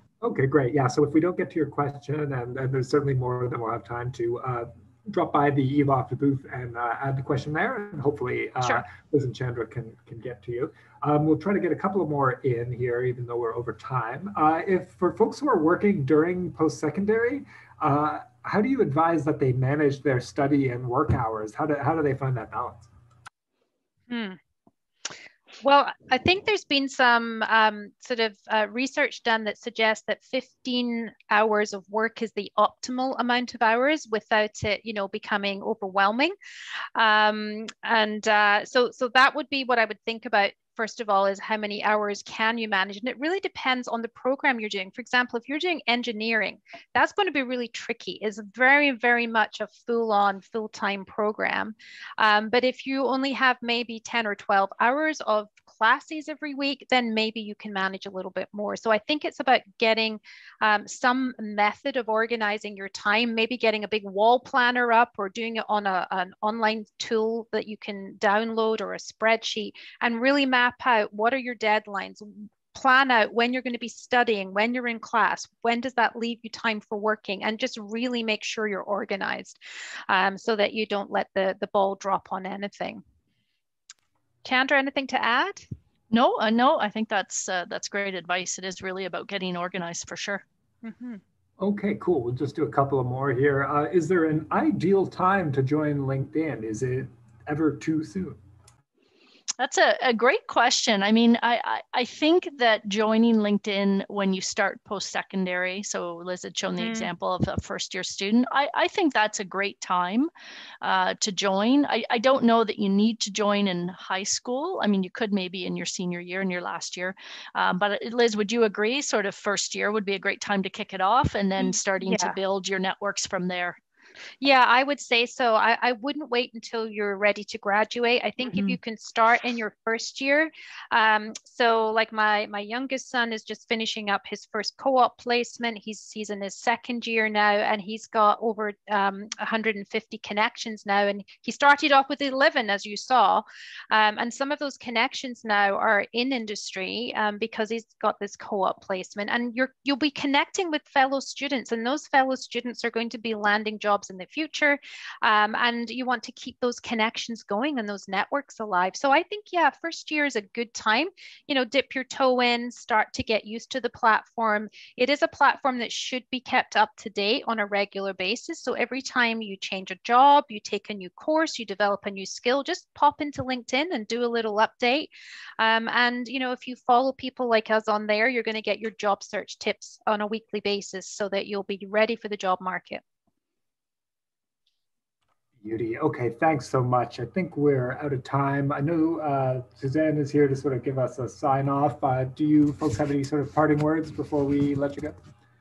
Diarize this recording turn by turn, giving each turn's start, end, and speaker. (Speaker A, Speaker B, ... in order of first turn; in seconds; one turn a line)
Speaker A: 0.2-22.9
Speaker B: 24.1-24.4
Speaker B: 25.6-36.4
Speaker B: 37.0-83.0
Speaker B: 84.4-85.7
Speaker C: 86.1-90.4
Speaker B: 90.8-91.2
Speaker A: 91.6-98.4
Speaker C: 99.6-110.3
Speaker B: 106.8-107.1
Speaker C: 110.8-123.8
Speaker B: 121.6-122.4
Speaker B: 124.4-183.0
Speaker A: 185.6-195.2